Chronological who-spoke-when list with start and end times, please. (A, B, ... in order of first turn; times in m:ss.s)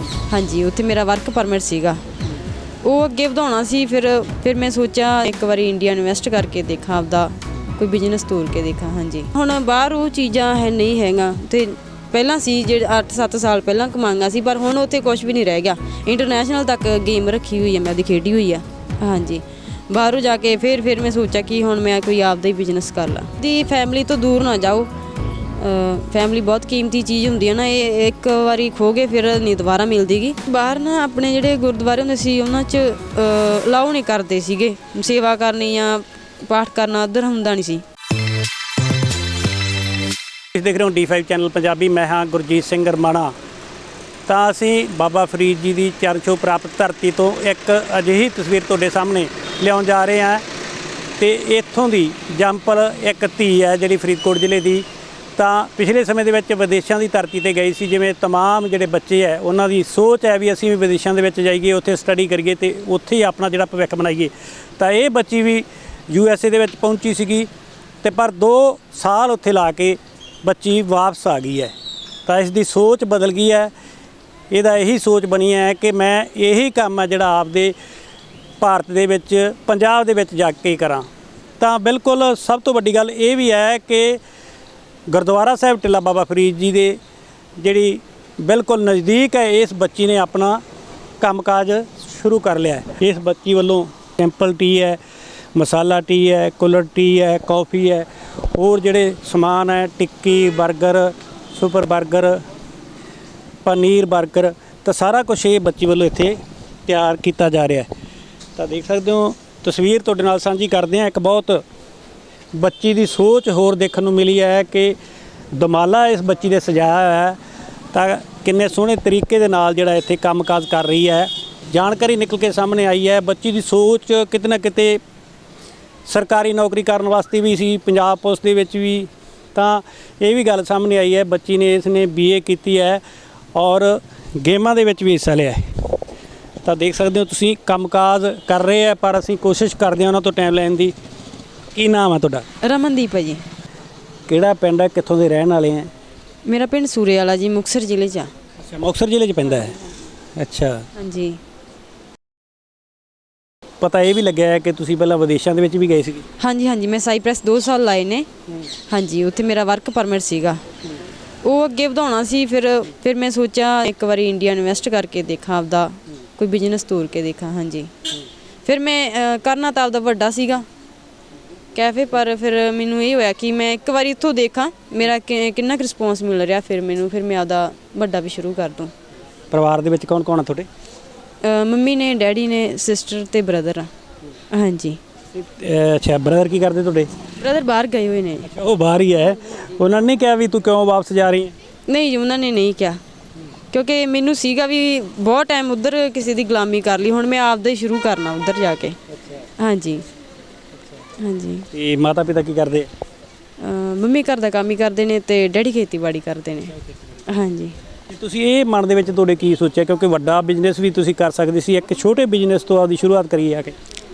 0:00.3-0:02.0 A
0:02.8-0:24.9 A
0:25.5-0:37.8 A
0:40.5-0:43.3 B
0:44.3-0:50.4 B
0:51.2-0:54.8 B
0:55.4-1:07.5 B
1:08.0-1:11.7 B
1:12.3-1:13.7 B
1:14.5-1:17.8 B
1:18.6-1:21.1 B
1:21.6-1:24.2 B
1:25.1-1:27.0 B
1:27.6-1:30.6 B
1:31.2-1:35.0 B
1:35.6-1:42.4 B
1:43.6-1:47.9 B
1:48.6-1:51.6 B
1:52.5-1:55.0 B
1:55.5-1:57.4 B
1:57.9-2:05.0 B
2:06.1-2:13.0 B
2:13.6-2:15.6 B
2:16.6-2:20.9 B
2:21.8-2:22.4 B
2:22.6-2:23.4 A
2:24.3-2:25.9 B
2:26.5-2:28.3 A
2:28.6-2:29.8 B
2:30.4-2:30.9 B
2:31.0-2:31.4 A
2:33.8-2:36.2 B
2:36.4-2:38.3 A
2:38.9-2:40.6 A
2:41.4-2:48.1 A
2:48.7-2:50.7 A
2:51.8-2:58.9 A
2:59.5-3:00.7 B
3:01.4-3:03.9 A
3:04.5-3:05.0 A
3:05.4-3:07.1 B
3:07.4-3:08.5 A
3:08.5-3:11.5 B
3:11.9-3:13.0 A
3:13.7-3:19.0 A
3:19.6-3:20.0 A
3:21.2-3:21.7 A
3:21.7-3:22.9 B
3:23.6-3:26.7 A
3:27.3-3:27.8 A
3:28.1-3:33.8 B